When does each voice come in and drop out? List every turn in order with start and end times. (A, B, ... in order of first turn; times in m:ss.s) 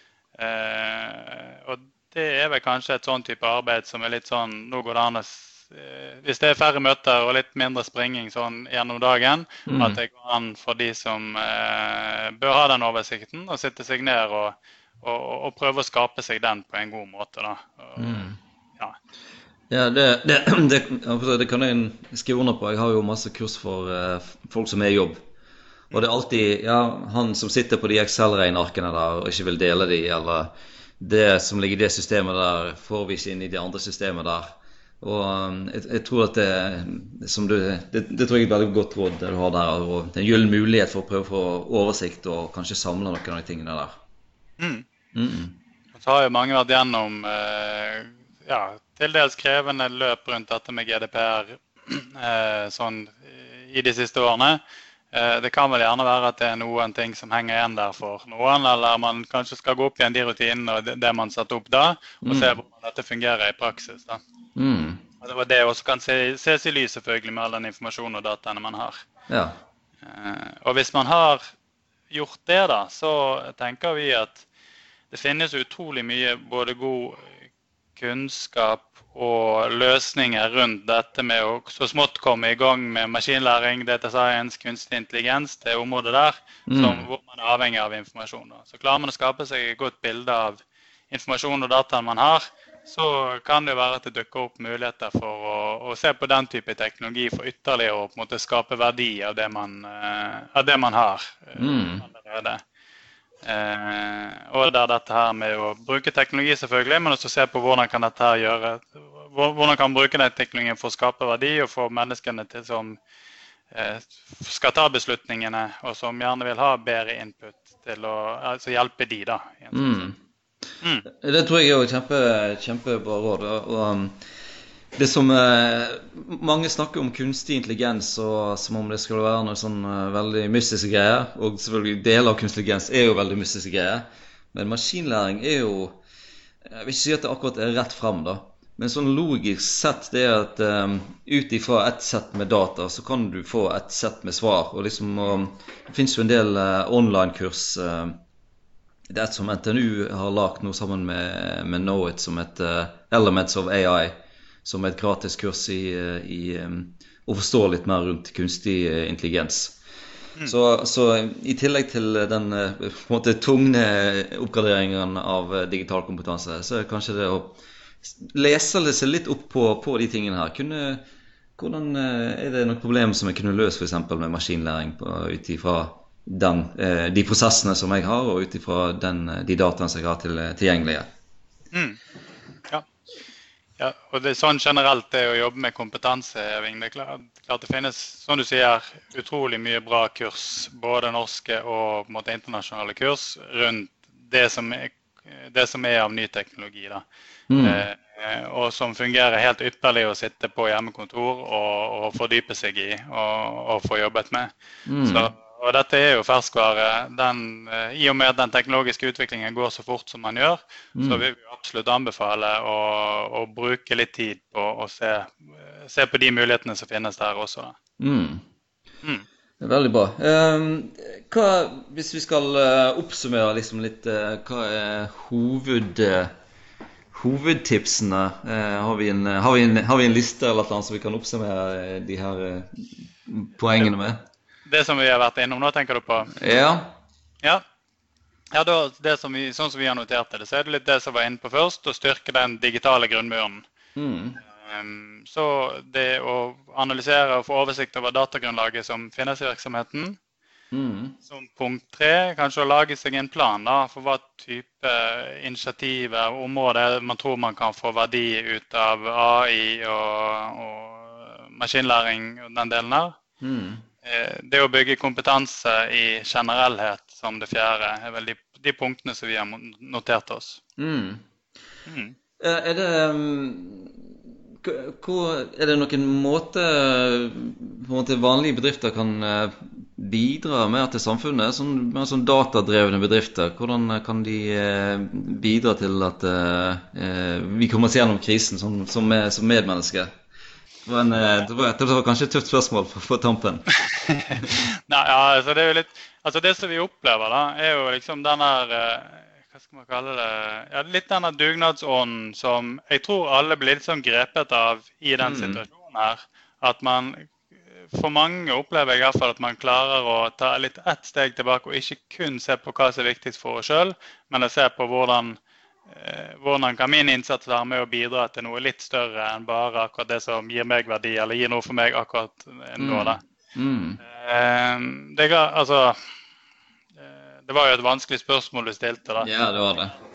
0:00.4-0:19.0 A
0:09.7-0:10.0 B
0:18.0-0:18.4 B
0:19.7-0:25.2 B
0:25.9-0:43.9 B
0:44.6-0:44.8 A
0:45.1-0:45.6 B
0:46.0-0:54.6 A
0:55.1-1:04.2 A
1:02.2-1:02.6 B
1:04.6-1:05.0 B
1:05.2-1:09.0 A
1:09.3-1:09.6 B
1:10.1-1:11.5 A
1:12.1-1:14.4 A
1:15.1-1:17.4 A
1:18.0-1:42.6 A
1:26.7-1:27.1 B
1:41.6-1:42.1 B
1:43.4-1:53.0 A
1:53.7-2:00.1 A
1:59.7-2:00.2 B
2:01.1-2:04.2 B
2:05.0-2:16.0 B
2:16.7-2:28.2 B
2:29.1-2:39.8 B
2:40.4-2:51.0 B
2:51.6-3:01.1 B
3:01.7-3:02.0 A
3:03.8-3:17.0 A
3:17.5-3:17.8 B
3:17.6-3:24.5 A
3:24.9-3:25.3 B
3:25.0-3:37.8 A
3:31.0-3:31.2 B
3:38.0-3:38.4 B
3:39.6-3:46.3 B
3:47.1-3:54.2 B
3:54.7-3:56.3 A
3:56.3-3:57.0 B
3:58.5-4:03.6 A
4:04.0-4:04.4 B
4:04.6-4:10.2 A
4:10.7-4:11.2 B
4:11.3-4:23.2 A
4:23.4-4:23.8 B
4:24.0-4:30.6 A
4:30.8-4:31.2 B
4:31.9-4:32.2 A
4:32.4-4:34.1 B
4:34.6-4:50.1 B
4:50.9-4:53.7 B
4:53.9-5:07.4 A
5:05.2-5:05.6 B
5:07.9-5:23.2 A
5:22.8-5:24.0 B
5:24.0-5:26.0 A
5:27.0-5:29.3 A
5:29.2-5:30.0 B